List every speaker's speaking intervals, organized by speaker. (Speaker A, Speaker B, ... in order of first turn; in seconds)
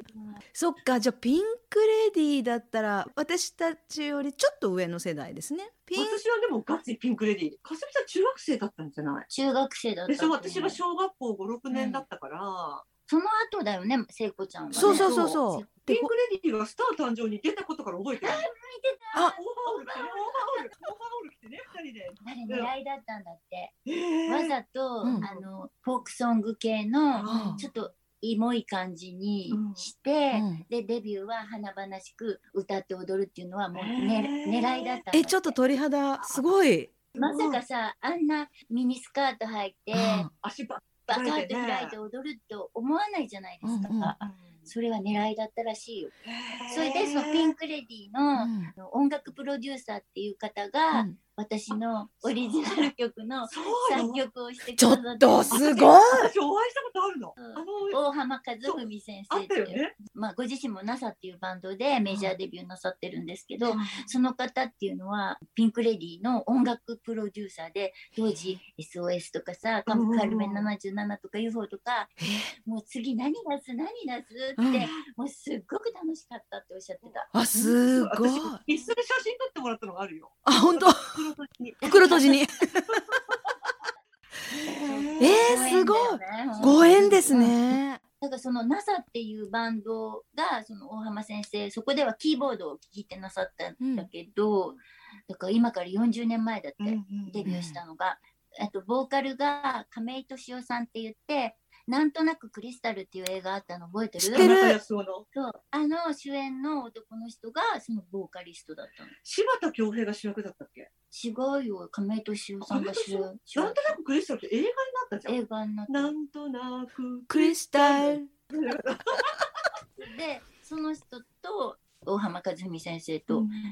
Speaker A: 0.5-6.2, 11.7-12.0, 14.7-16.1, 27.2-27.6, 30.3-30.6, 35.1-37.0, 39.9-40.3, 43.6-44.1, 48.4-48.7, 50.9-51.2, 54.8-56.3, 72.2-72.5, 74.6-74.9, 77.3-78.6, 80.4-81.2, 81.9-83.2, 85.2-88.0, 93.8-94.1, 97.4-97.8, 104.3-104.8, 117.3-118.3
Speaker B: 5.9-9.3, 10.1-12.8, 14.7-15.3, 15.9-18.4, 19.2-22.7, 23.9-24.5, 25.2-25.5, 27.1-27.8, 29.5-29.9, 33.7-35.0, 37.1-37.6, 40.4-42.0, 44.2-44.7, 46.2-47.5, 52.2-52.9, 53.5-54.2, 55.5-58.0, 58.6-59.9, 63.6-64.1, 69.9-70.7, 77.0-82.4, 82.9-83.4, 84.5-85.9, 86.5-87.5, 96.8-97.5, 104.2-105.3, 109.2-110.9, 112.6-119.4, 123.3-123.6
Speaker C: 9.3-10.8, 13.1-15.7, 18.2-20.6, 22.2-23.7, 24.3-35.6, 37.1-40.3, 41.0-46.1, 46.7-55.9, 57.4-77.3, 78.7-78.9, 84.8-87.7, 88.2-104.5, 105.3-109.1, 111.1-113.9, 115.3-116.1, 120.0-123.5